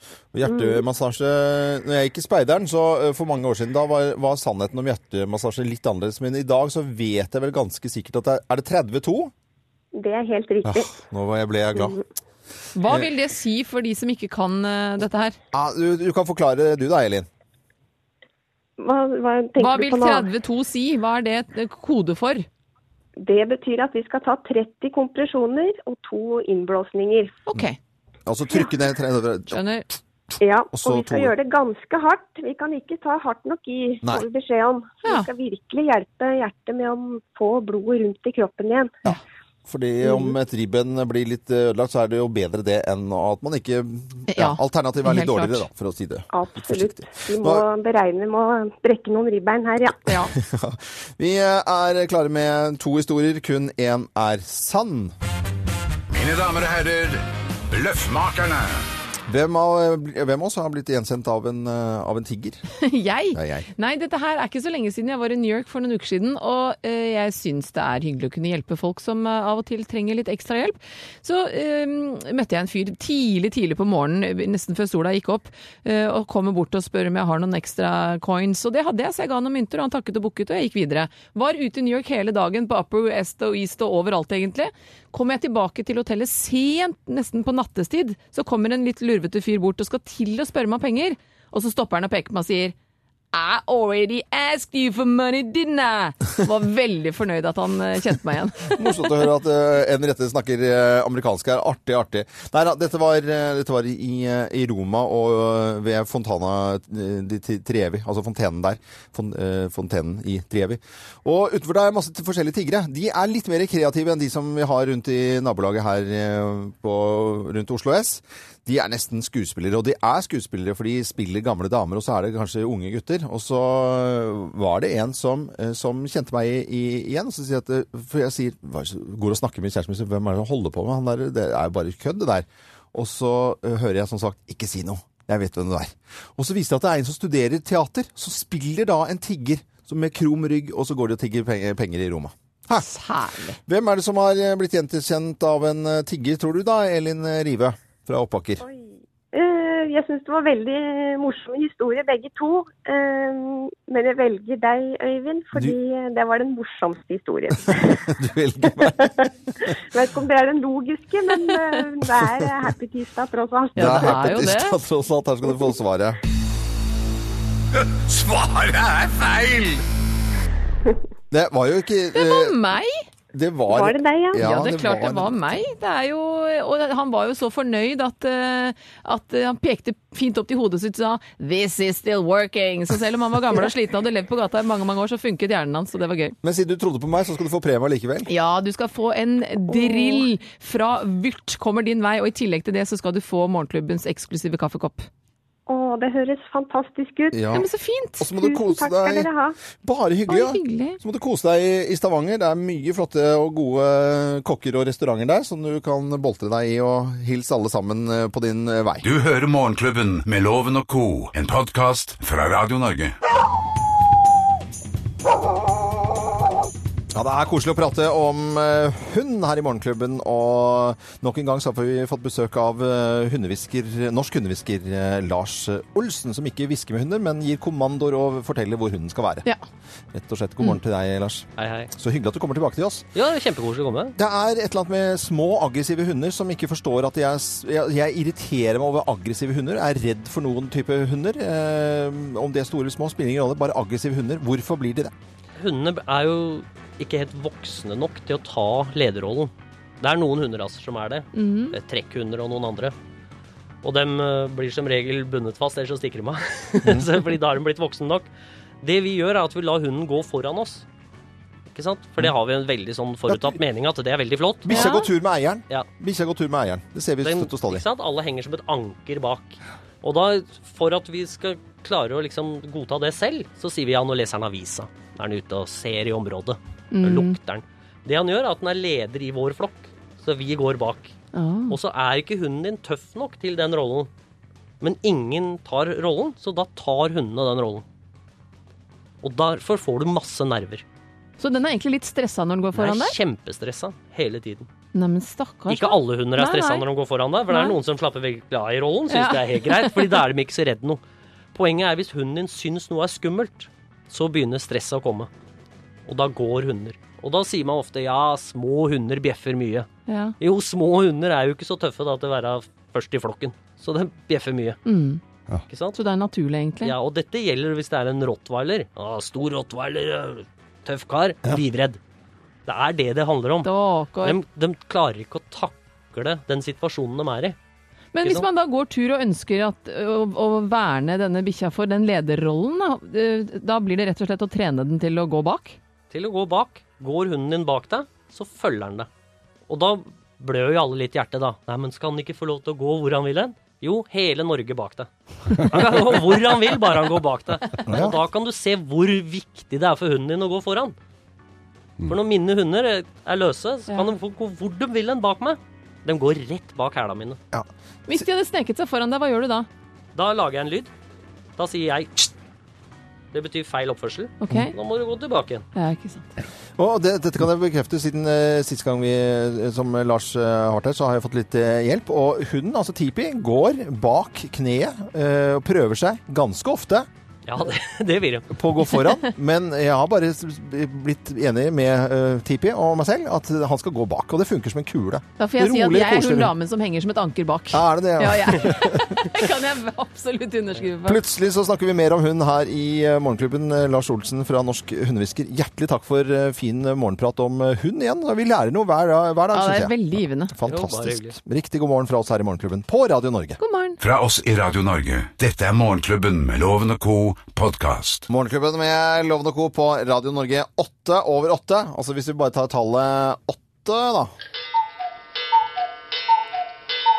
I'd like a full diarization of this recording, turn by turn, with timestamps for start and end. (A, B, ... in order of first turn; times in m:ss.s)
0:00.3-0:09.3 A
0:00.4-0:00.8 B
0:09.9-0:10.9 B
0:10.6-0:12.0 A
0:12.8-0:15.4 C
0:15.5-0:17.3 A
0:18.8-0:20.3 B
0:19.6-0:22.4 C
0:23.2-0:27.3 B
0:27.5-0:27.8 C
0:28.2-0:29.6 A
0:29.5-0:29.9 C
0:30.4-0:38.9 B
0:30.7-0:31.3 A
0:39.0-0:47.6 A
0:44.3-0:45.7 C
0:46.3-0:50.0 B
0:50.0-0:50.3 C
0:50.3-0:55.1 A
0:56.1-0:58.8 D
0:59.3-1:02.6 A
1:02.8-1:32.7 C
1:03.3-1:03.7 A
1:33.3-1:39.1 C
1:38.7-2:22.9 A
2:22.7-2:23.6 C
2:23.6-2:28.6 A
2:28.6-2:38.1 B
2:37.6-2:39.3 A
2:38.8-2:44.3 B
2:43.8-2:44.8 C
2:43.8-2:46.2 A
2:47.9-2:49.8 D
2:51.3-2:52.6 A
2:52.1-2:53.0 C
2:53.3-2:55.6 A
2:53.7-2:54.5 B
2:54.4-3:06.4 C
3:06.4-3:08.3 A
3:08.3-3:15.1 C
3:09.7-3:10.2 B
3:15.7-3:17.5 B
3:17.3-3:17.7 A
3:17.5-3:18.3 C
3:18.2-3:29.0 A
3:18.4-3:19.6 B
3:20.3-3:21.0 C
3:29.0-3:33.1 D
3:37.1-3:49.5 A
3:50.1-3:53.1 A
3:51.6-3:51.9 E
3:53.1-3:54.2 E
3:54.2-4:05.1 A
4:05.6-4:12.9 E
4:11.3-4:11.8 C
4:13.8-4:18.3 E
4:16.8-4:17.1 A
4:18.8-4:20.8 E
4:21.7-4:24.9 E
4:23.3-4:23.6 A
4:24.6-4:27.8 A
4:24.7-4:25.1 C
4:27.2-4:41.1 E
4:36.9-4:37.4 C
4:41.3-4:41.8 C
4:41.7-4:44.1 E
4:44.8-4:47.8 E
4:49.2-4:50.8 E
4:51.4-4:53.2 C
4:52.8-4:54.7 E
4:54.9-4:56.8 C
4:55.7-5:01.0 E
4:57.5-4:57.8 C
4:59.1-5:00.0 C
5:01.5-5:05.3 E
5:06.1-5:09.9 E
5:10.1-5:10.4 C
5:10.4-5:14.8 E
5:14.8-5:15.2 C
5:15.7-5:16.0 E
5:15.9-5:16.9 C
5:16.8-5:22.0 E
5:22.7-5:23.7 E
5:23.6-5:24.4 C
5:24.2-5:27.6 E
5:28.1-5:35.8 C
5:36.1-5:39.1 E
5:39.7-5:50.9 E
5:47.9-5:48.2 A
5:52.0-5:57.4 E
5:53.9-5:54.1 C
5:57.5-5:58.2 A
5:58.1-5:59.7 C
6:00.1-6:00.9 E
6:01.6-6:02.3 E
6:03.3-6:05.6 E
6:04.4-6:04.7 C
6:05.8-6:06.3 C
6:06.8-6:17.1 A
6:17.5-6:18.5 E
6:18.5-6:26.5 A
6:25.4-6:31.2 C
6:27.7-6:29.4 A
6:31.0-6:43.6 A
6:39.5-6:40.5 C
6:40.6-6:41.4 E
6:43.6-6:44.0 C
6:44.0-6:48.3 D
6:48.3-6:54.3 A